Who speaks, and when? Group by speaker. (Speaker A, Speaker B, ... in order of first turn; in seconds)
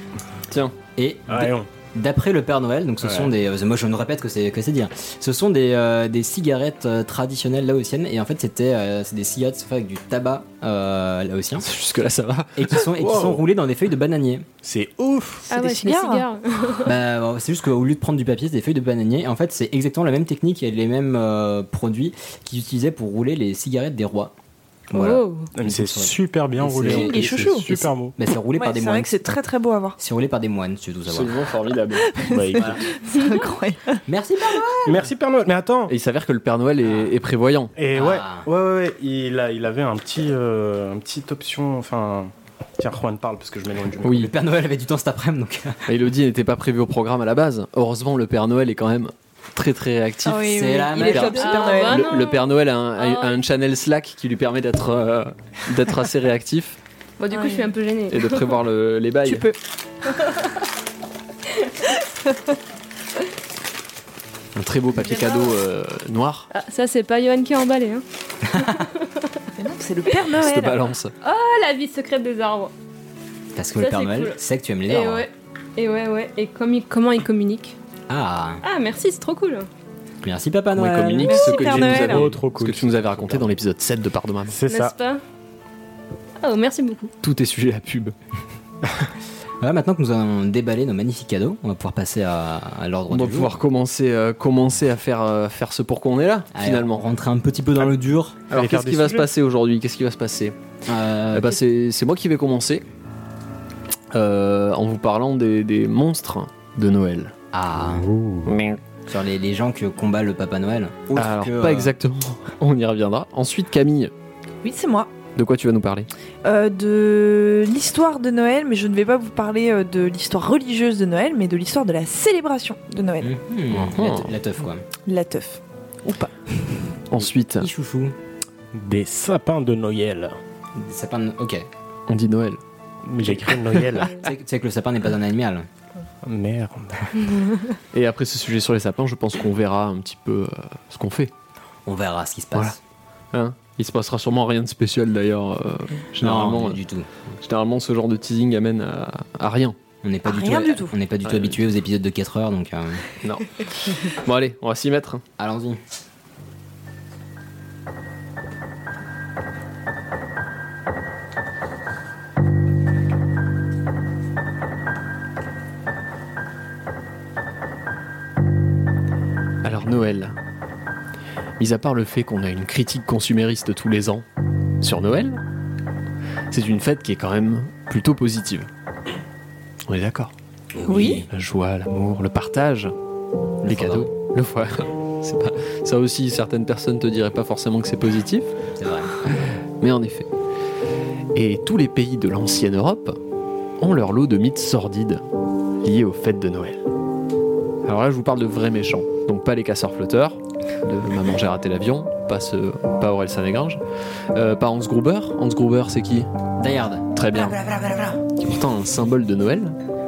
Speaker A: 0.5-0.7, 11.6-13.0, 31.1-32.1, 35.9-37.7, 44.0-44.3, 45.9-56.8, 58.1-59.5, 64.5-66.5, 70.4-71.1, 80.7-84.5, 87.2-88.1, 93.1-97.0, 98.5-100.5, 101.3-102.8, 104.1-107.3, 108.4-108.8, 111.1-114.1, 115.3-116.1, 123.7-124.4, 127.1-127.7, 132.1-132.6, 137.9-141.3, 143.3-146.8, 147.4-149.8, 151.2-151.6, 153.2-155.2, 169.6-170.3, 171.6-174.2, 174.8-175.4, 176.5-178.7, 179.9-180.3, 181.3-182.9, 183.7-188.5, 189.4-190.3, 191.3-193.2, 193.8-195.2, 195.8-196.8, 197.8-203.8, 204.3-206.3, 207.1-207.7, 208.2-209.8
Speaker B: 0.9-11.7, 12.6-14.5, 16.8-24.3, 24.9-29.1, 30.0-31.5, 34.1-35.1, 36.8-37.1, 37.9-38.5, 44.1-45.9, 50.5-51.6, 68.4-68.9, 73.5-75.2, 78.1-78.6, 80.2-81.5, 89.6-93.6, 96.5-98.4, 100.9-101.6, 107.5-108.1, 109.1-111.9, 123.2-124.8, 127.6-128.1, 130.7-131.7, 134.1-135.7, 141.8-142.8, 146.2-147.1, 150.0-153.1, 155.4-155.8, 180.8-181.3, 183.6-184.1, 188.8-189.1, 206.6-208.1
Speaker C: 1.3-1.7, 3.0-3.3, 13.0-13.4, 14.6-15.4, 25.5-28.1, 32.2-32.9, 34.9-35.9, 37.8-44.3, 81.6-83.4, 84.5-84.9, 98.5-99.3, 107.8-108.5, 128.7-130.4, 133.0-134.1, 136.2-137.3
Speaker D: 15.5-16.9, 24.9-25.5, 33.1-33.5, 51.1-53.4, 57.2-58.5, 60.2-60.5, 66.5-69.4, 71.2-72.7, 73.8-77.8, 78.6-79.7, 84.7-85.2, 86.4-87.1
Speaker E: 15.5-16.2, 26.8-27.8, 28.6-30.0, 32.0-34.0, 50.2-52.1, 57.3-57.7, 59.2-59.5, 69.6-70.8, 81.2-82.3, 114.6-115.1, 116.4-123.3, 125.0-126.3, 150.2-150.9, 180.9-181.2